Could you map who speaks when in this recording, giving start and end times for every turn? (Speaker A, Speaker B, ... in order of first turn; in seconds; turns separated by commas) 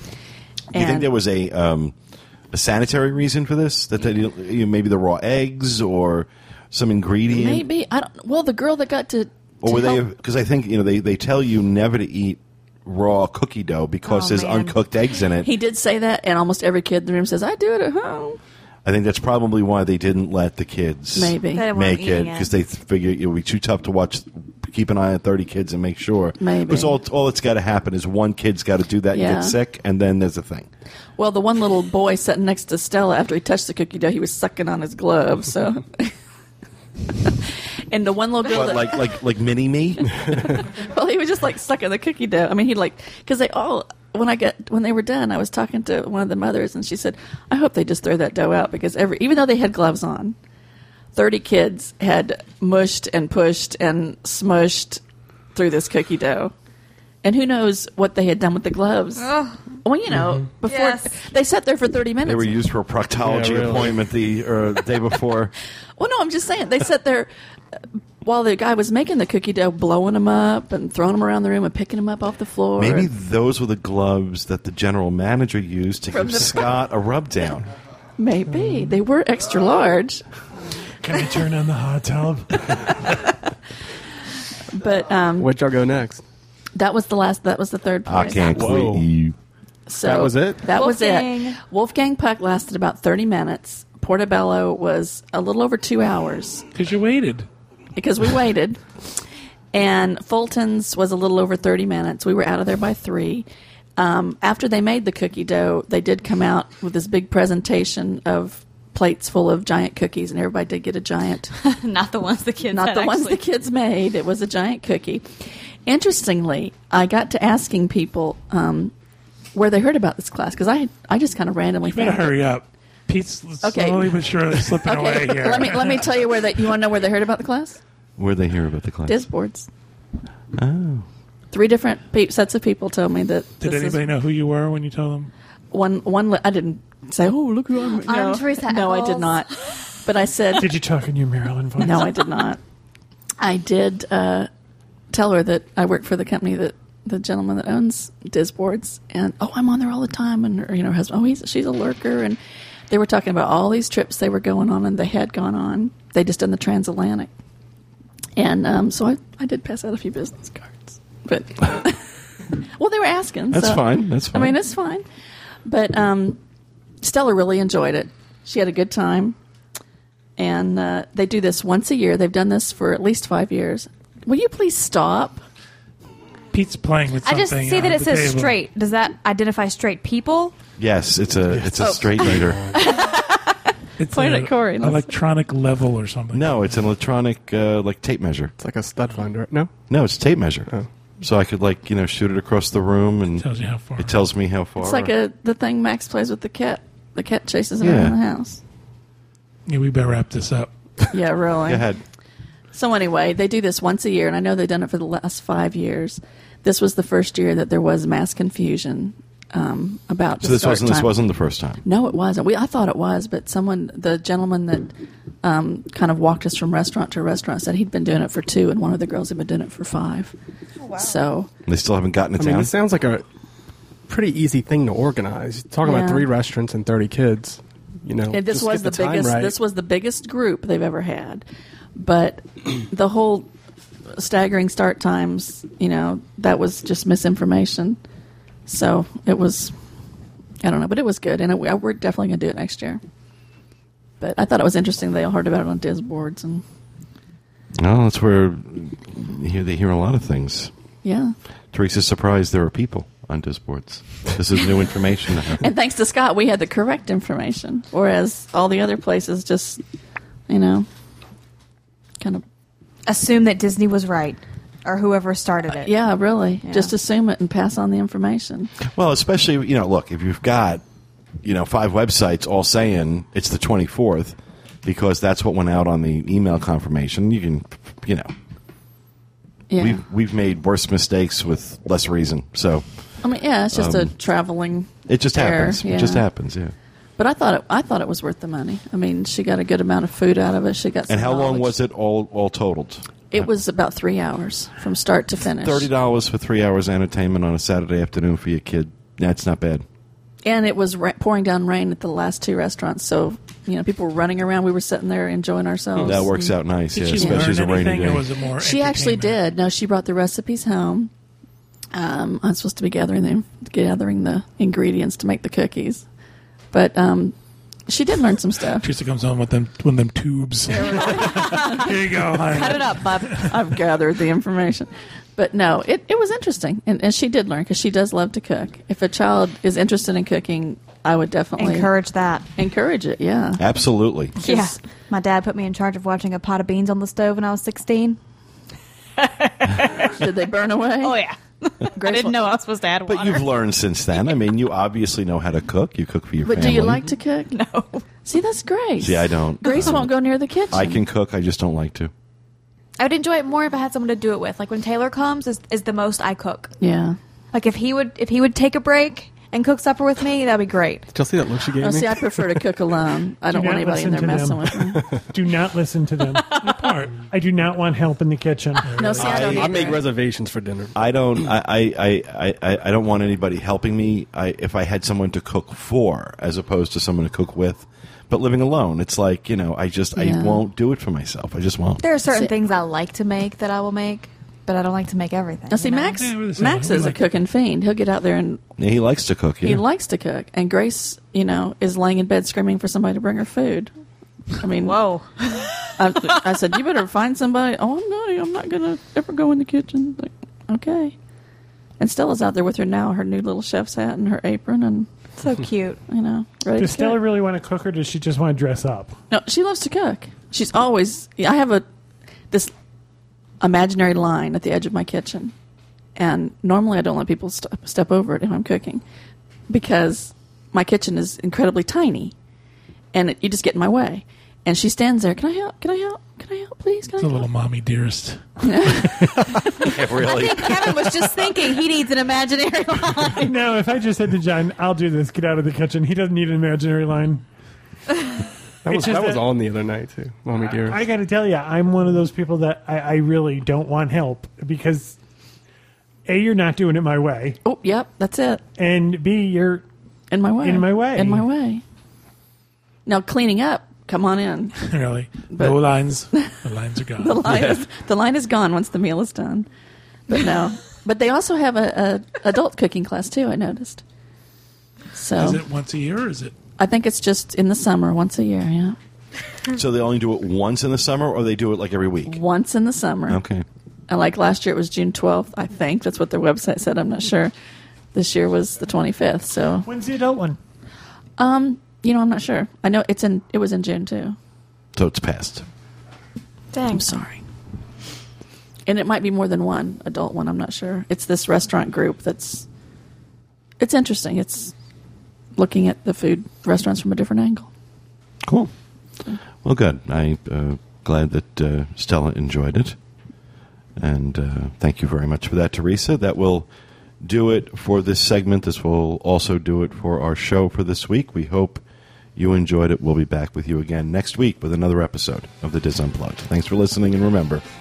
Speaker A: 0.7-1.1, Speaker B: 0.8-1.9, Speaker B: 2.5-7.7, Speaker A: 7.3-10.0, Speaker B: 9.6-15.5, Speaker C: 14.0-14.8, Speaker A: 15.4-18.4, Speaker B: 18.9-30.7, Speaker A: 21.1-21.7, Speaker C: 21.5-22.5, Speaker A: 26.4-26.9, Speaker A: 29.1-29.6, Speaker A: 31.2-36.1, Speaker A: 37.9-39.0, Speaker B: 38.5-40.1, Speaker A: 40.3-50.4, Speaker A: 51.1-55.0, Speaker A: 55.5-56.5, Speaker A: 57.2-59.3, Speaker C: 59.2-59.7, Speaker A: 59.8-62.5, Speaker C: 60.6-61.2, Speaker B: 62.2-65.5, Speaker D: 63.2-64.0, Speaker A: 66.0-67.3, Speaker A: 68.2-73.1, Speaker B: 72.8-77.7, Speaker A: 76.1-76.8, Speaker A: 78.2-80.2, Speaker E: 81.0-82.8, Speaker A: 84.7-85.5, Speaker D: 85.4-86.2, Speaker A: 86.8-88.7, Speaker B: 88.1-89.2, Speaker D: 88.5-89.1, Speaker A: 89.9-96.7, Speaker D: 90.0-90.7, Speaker C: 90.7-91.6, Speaker F: 96.7-97.5, Speaker A: 98.0-98.8, Speaker A: 99.7-103.5, Speaker A: 104.0-111.5, Speaker C: 111.5-113.4, Speaker A: 112.7-115.3, Speaker A: 115.9-118.9, Speaker A: 119.5-122.4, Speaker F: 121.8-126.0, Speaker A: 123.6-127.8, Speaker B: 128.2-129.2, Speaker A: 129.1-129.7, Speaker B: 130.6-131.1, Speaker A: 131.5-134.1, Speaker F: 133.6-135.3, Speaker A: 135.7-140.7, Speaker C: 138.0-139.6, Speaker E: 140.6-142.1, Speaker A: 141.8-142.6, Speaker A: 143.4-144.5, Speaker A: 145.1-152.4, Speaker A: 152.9-157.3, Speaker A: 158.4-162.0, Speaker A: 162.8-165.1, Speaker B: 163.5-164.6, Speaker A: 165.7-166.4, Speaker A: 167.0-169.4, Speaker A: 170.4-175.4, Speaker F: 176.5-178.5, Speaker C: 177.2-180.6, Speaker B: 180.8-182.7, Speaker A: 181.8-182.1, Speaker F: 184.0-186.7, Speaker A: 184.1-185.0, Speaker B: 186.3-188.5, Speaker D: 188.6-189.7, Speaker B: 189.9-190.7, Speaker B: 191.2-193.5, Speaker F: 193.4-194.3, Speaker B: 194.0-195.1, Speaker A: 194.8-198.6, Speaker B: 197.8-198.2, Speaker F: 199.7-200.7, Speaker A: 201.1-201.9, Speaker B: 201.7-202.0, Speaker A: 202.7-211.1, Speaker B: 210.4-211.8, Speaker A: 211.8-214.9, Speaker A: 215.4-220.3, Speaker A: 220.9-221.5, Speaker B: 221.7-222.7, Speaker D: 222.4-223.3, Speaker D: 224.1-229.6, Speaker A: 225.8-226.3, Speaker A: 228.3-231.4, Speaker A: 232.0-233.5, Speaker A: 234.2-238.0, Speaker A: 238.7-239.7, Speaker A: 240.6-243.0, Speaker A: 244.2-246.6, Speaker B: 247.8-250.7, Speaker A: 251.0-251.3, Speaker B: 251.7-255.7, Speaker A: 255.6-259.8, Speaker A: 260.5-260.9, Speaker C: 263.1-265.9, Speaker A: 265.7-268.7, Speaker C: 266.6-266.9, Speaker B: 268.9-270.8, Speaker B: 271.4-278.3, Speaker A: 279.7-280.0, Speaker B: 279.8-282.9, Speaker A: 283.2-286.3, Speaker B: 283.7-284.1, Speaker B: 285.1-286.7, Speaker A: 287.2-291.7, Speaker B: 291.1-293.1, Speaker A: 293.3-295.9, Speaker B: 295.6-299.9, Speaker A: 300.4-306.5, Speaker D: 306.0-306.3, Speaker B: 306.0-308.3, Speaker F: 306.9-309.4, Speaker A: 307.2-307.5, Speaker A: 308.6-311.1, Speaker A: 311.9-316.1, Speaker A: 316.7-317.4, Speaker A: 317.9-318.9, Speaker F: 318.8-323.5, Speaker A: 320.7-321.8, Speaker C: 321.1-321.7, Speaker C: 322.4-323.2, Speaker A: 323.0-331.9, Speaker C: 331.6-332.5, Speaker A: 332.6-333.6, Speaker B: 333.6-334.4, Speaker A: 334.4-334.8, Speaker C: 334.4-338.2, Speaker C: 339.2-340.2, Speaker A: 340.2-341.2, Speaker C: 340.7-343.5, Speaker A: 342.0-342.5, Speaker B: 343.1-347.0, Speaker A: 346.4-347.5, Speaker C: 347.4-348.0, Speaker A: 348.2-351.0, Speaker B: 349.0-350.1, Speaker B: 350.7-352.1, Speaker C: 353.0-356.7, Speaker A: 356.8-357.2, Speaker C: 357.5-361.1, Speaker D: 361.1-362.6, Speaker A: 361.8-365.0, Speaker E: 363.5-366.5, Speaker C: 366.4-366.8, Speaker F: 366.6-367.2, Speaker E: 367.2-369.0, Speaker A: 369.0-369.9, Speaker C: 369.0-370.0, Speaker D: 369.1-371.1, Speaker B: 369.2-369.8, Speaker B: 371.0-382.0, Speaker A: 380.1-380.7, Speaker C: 382.0-386.2, Speaker A: 382.3-382.5, Speaker A: 385.7-388.6, Speaker F: 386.1-387.3, Speaker B: 388.8-389.8, Speaker A: 389.6-393.9, Speaker A: 394.6-395.0, Speaker C: 394.8-396.4, Speaker A: 396.0-401.1, Speaker A: 402.0-405.1, Speaker C: 405.4-406.0, Speaker A: 406.1-407.2, Speaker E: 406.8-409.2, Speaker A: 409.3-411.8, Speaker A: 413.6-415.5, Speaker A: 416.2-419.0, Speaker A: 419.7-422.3, Speaker A: 423.1-427.5, Speaker F: 427.2-429.2, Speaker A: 428.6-429.4, Speaker B: 429.8-431.2, Speaker C: 430.1-433.5, Speaker E: 433.4-437.4, Speaker D: 438.8-441.0, Speaker E: 438.9-439.5, Speaker E: 440.8-445.2, Speaker E: 446.3-447.6, Speaker A: 447.6-448.6, Speaker E: 448.8-449.9, Speaker A: 450.3-451.8, Speaker E: 450.6-451.5, Speaker A: 453.1-454.8, Speaker F: 454.9-457.7, Speaker A: 455.5-455.8, Speaker A: 457.2-459.7, Speaker A: 460.3-464.0, Speaker A: 465.1-465.6, Speaker F: 465.4-466.5, Speaker A: 466.8-469.0, Speaker B: 469.7-472.4, Speaker A: 472.3-473.4, Speaker B: 473.3-473.6, Speaker A: 474.1-477.5, Speaker A: 478.1-479.9, Speaker E: 479.8-480.6, Speaker A: 481.4-484.4, Speaker B: 485.0-485.6, Speaker C: 486.7-487.2, Speaker A: 486.9-487.4, Speaker A: 488.9-492.7, Speaker A: 493.8-494.7, Speaker A: 495.6-497.7, Speaker B: 498.5-498.7, Speaker B: 499.6-503.0, Speaker B: 504.0-506.7, Speaker B: 507.2-511.8, Speaker B: 512.4-517.6